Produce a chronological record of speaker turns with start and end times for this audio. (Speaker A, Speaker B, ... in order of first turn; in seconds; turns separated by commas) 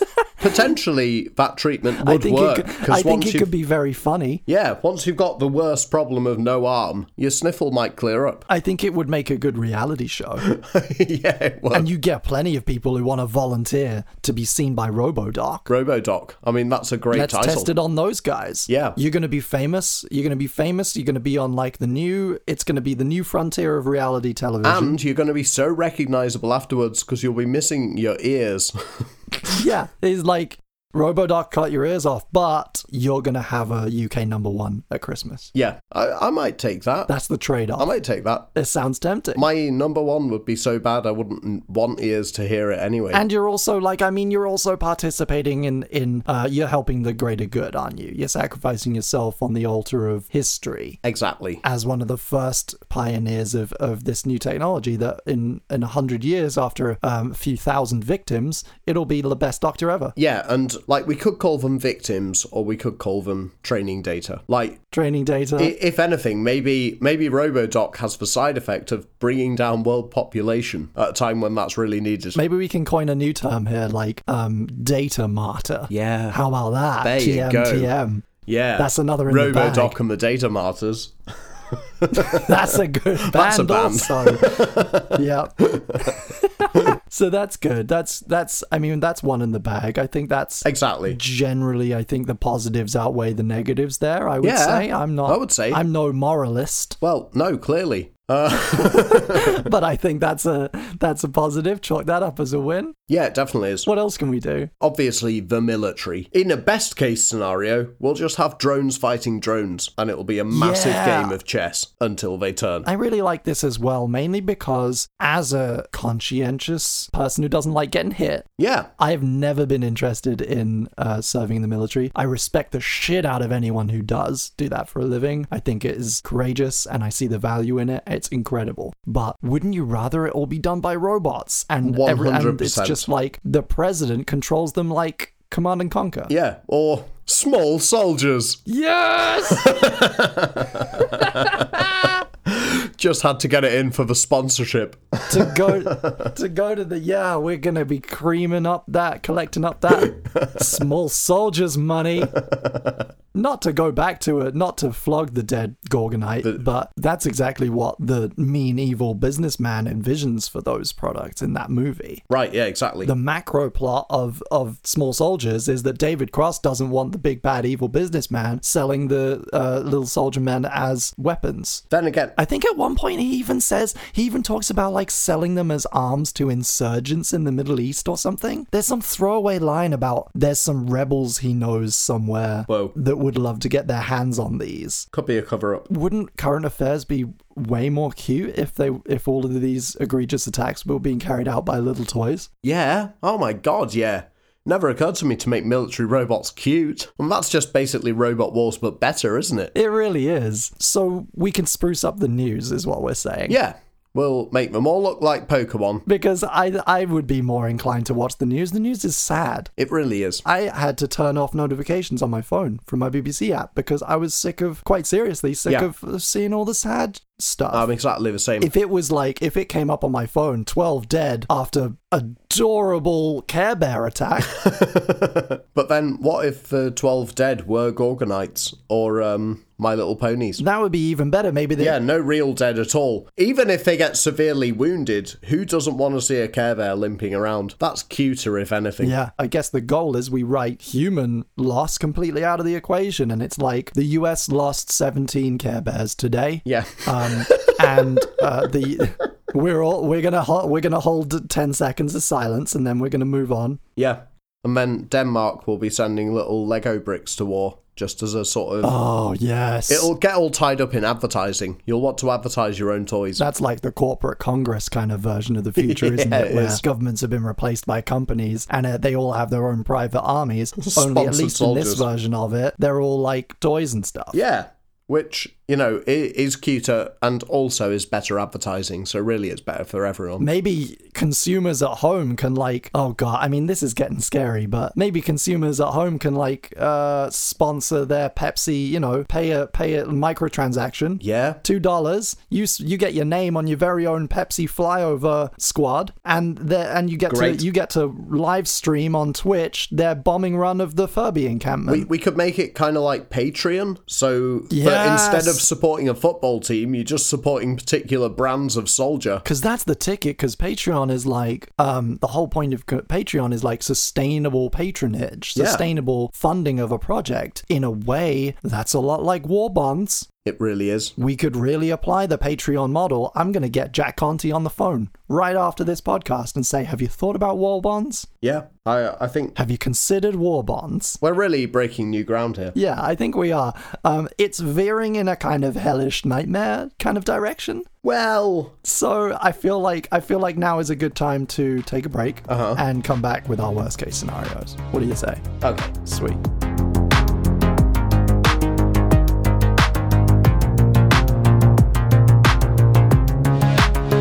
Speaker A: 0.4-3.5, Speaker B: 2.0-4.4, Speaker A: 4.5-8.5, Speaker B: 8.5-10.5, Speaker A: 10.4-11.9, Speaker B: 11.7-15.7, Speaker A: 15.7-17.7, Speaker B: 17.1-25.0, Speaker A: 18.7-19.0, Speaker A: 24.6-29.1, Speaker B: 29.4-35.5, Speaker A: 35.5-37.1, Speaker B: 37.1-37.9, Speaker A: 37.8-38.5, Speaker B: 38.5-39.5, Speaker A: 39.4-43.2, Speaker B: 43.1-51.0, Speaker A: 51.0-51.6, Speaker B: 51.6-60.2, Speaker A: 60.2-64.8, Speaker B: 64.9-65.8, Speaker A: 65.6-72.4, Speaker B: 72.3-78.3, Speaker A: 75.9-76.4, Speaker A: 77.0-86.8, Speaker B: 78.8-80.0, Speaker B: 82.1-97.0, Speaker A: 90.7-91.2, Speaker A: 94.4-95.8, Speaker A: 97.0-99.6, Speaker B: 98.7-103.0, Speaker A: 103.1-103.9, Speaker B: 103.9-104.7, Speaker A: 104.8-112.9, Speaker B: 110.5-111.4, Speaker B: 112.8-136.3, Speaker A: 118.6-118.9, Speaker A: 131.8-133.1, Speaker A: 136.3-138.6, Speaker B: 138.7-139.9, Speaker A: 139.3-146.3, Speaker B: 141.0-142.0, Speaker B: 145.3-152.4, Speaker A: 150.0-150.6, Speaker A: 152.3-153.1, Speaker B: 153.3-162.2, Speaker A: 162.3-163.1, Speaker B: 163.0-171.8, Speaker A: 171.9-172.3, Speaker B: 172.4-185.1, Speaker A: 182.7-182.9, Speaker A: 185.1-185.9, Speaker B: 185.9-192.5, Speaker A: 192.6-199.7, Speaker B: 199.8-203.6, Speaker A: 203.5-206.0, Speaker B: 206.1-209.7, Speaker A: 209.8-210.4, Speaker B: 210.4-217.9, Speaker A: 217.7-218.7, Speaker B: 218.6-224.6, Speaker A: 224.5-230.6, Speaker B: 230.6-232.0, Speaker A: 231.8-239.2, Speaker B: 239.0-253.8, Speaker A: 246.7-248.3, Speaker A: 254.0-259.0, Speaker B: 258.8-260.1, Speaker A: 259.9-263.4, Speaker B: 263.4-274.4, Speaker A: 265.8-266.8, Speaker A: 270.8-272.1, Speaker A: 274.3-280.5, Speaker B: 280.4-302.1, Speaker A: 291.2-291.6, Speaker A: 297.3-297.7, Speaker A: 301.9-309.4, Speaker B: 304.7-305.6, Speaker B: 309.4-320.3, Speaker A: 315.6-315.8, Speaker A: 320.4-321.1, Speaker B: 321.2-328.3, Speaker A: 328.4-329.6, Speaker B: 329.6-331.2, Speaker A: 331.2-332.8, Speaker B: 332.8-337.9, Speaker A: 338.0-338.8, Speaker B: 338.8-346.4, Speaker A: 342.5-342.8, Speaker A: 345.6-345.9